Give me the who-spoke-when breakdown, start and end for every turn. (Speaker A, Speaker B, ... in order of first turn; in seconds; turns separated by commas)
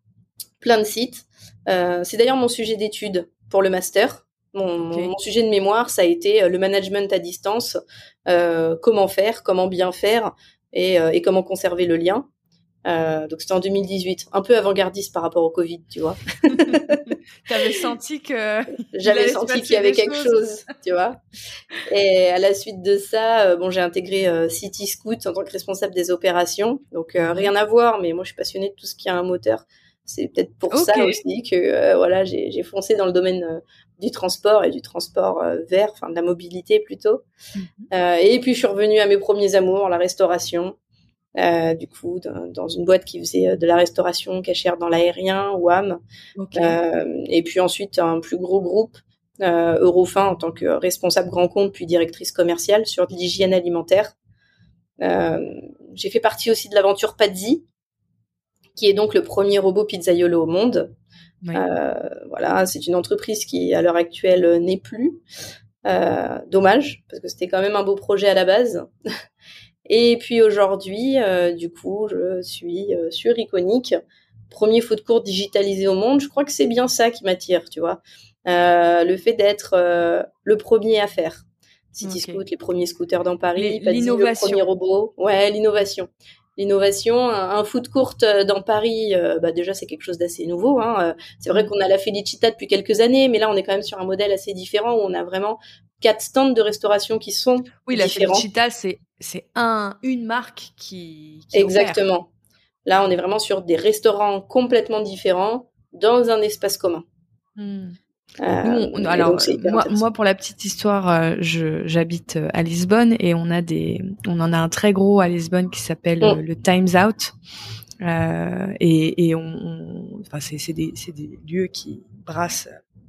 Speaker A: 0.6-12.2, Speaker B: 4.9-5.1, Speaker A: 12.8-17.1, Speaker B: 17.4-20.4, Speaker A: 18.9-21.2, Speaker A: 21.9-37.2, Speaker B: 27.2-27.5, Speaker B: 30.7-31.2, Speaker B: 37.5-37.9, Speaker A: 37.9-40.7, Speaker A: 41.4-46.0, Speaker B: 46.4-46.8, Speaker A: 46.5-54.1, Speaker A: 55.0-57.6, Speaker A: 58.8-60.9, Speaker A: 61.5-65.2, Speaker A: 65.8-68.9, Speaker A: 69.9-74.0, Speaker A: 74.5-98.5, Speaker B: 82.0-82.4, Speaker B: 83.5-84.6, Speaker B: 97.8-102.0, Speaker A: 101.5-102.3, Speaker A: 102.8-107.0, Speaker B: 107.6-108.0, Speaker A: 108.4-110.0, Speaker B: 108.6-117.3, Speaker B: 118.0-122.8